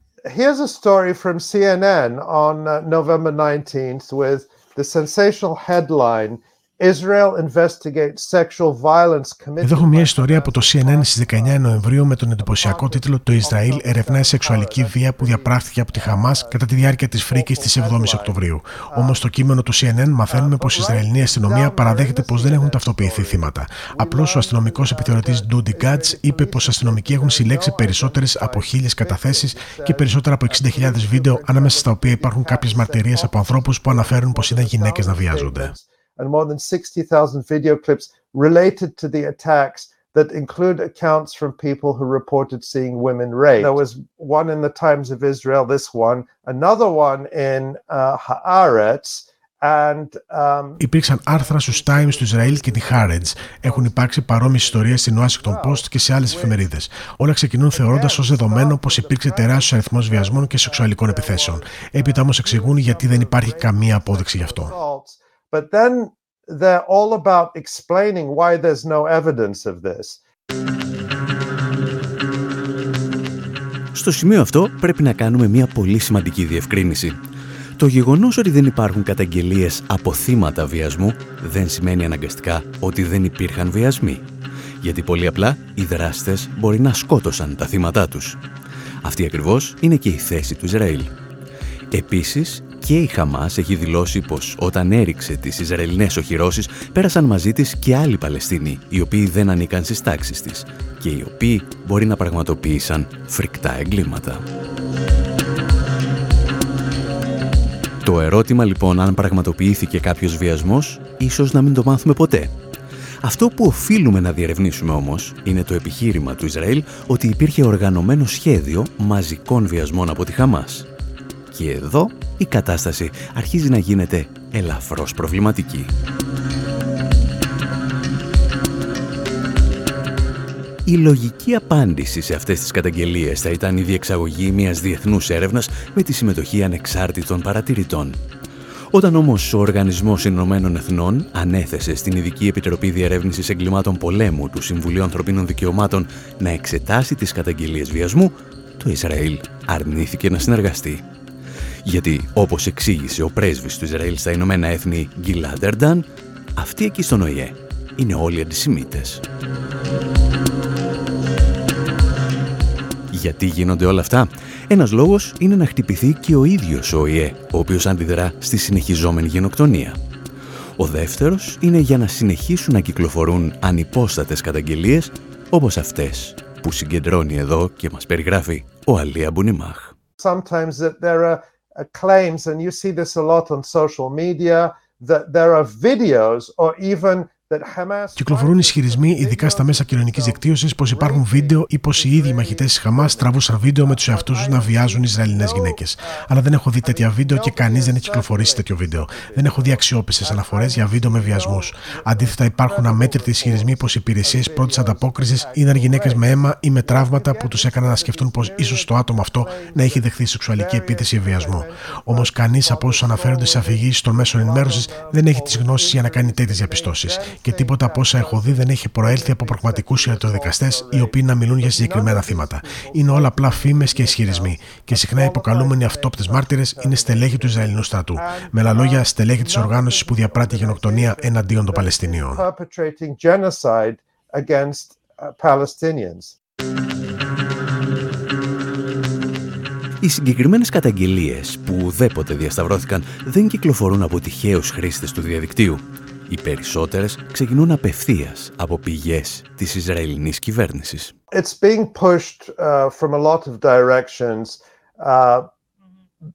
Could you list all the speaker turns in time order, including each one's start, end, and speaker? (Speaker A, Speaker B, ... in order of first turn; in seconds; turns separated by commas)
Speaker A: 0.2-11.9, Speaker B: 9.6-35.7, Speaker A: 12.4-19.2, Speaker A: 20.3-56.7, Speaker B: 50.8-64.7, Speaker A: 57.7-70.2, Speaker C: 73.9-77.2, Speaker C: 77.8-84.2, Speaker C: 84.8-88.4, Speaker C: 89.0-91.1, Speaker C: 91.9-104.4, Speaker C: 108.0-112.5, Speaker C: 113.2-120.9, Speaker C: 121.5-125.9, Speaker C: 130.8-138.2, Speaker C: 138.9-151.0, Speaker C: 151.8-159.2, Speaker C: 163.1-170.0, Speaker C: 170.8-179.9, Speaker A: 180.2-236.4, Speaker B: 188.2-232.4, Speaker C: 240.0-251.1, Speaker A: 251.3-255.5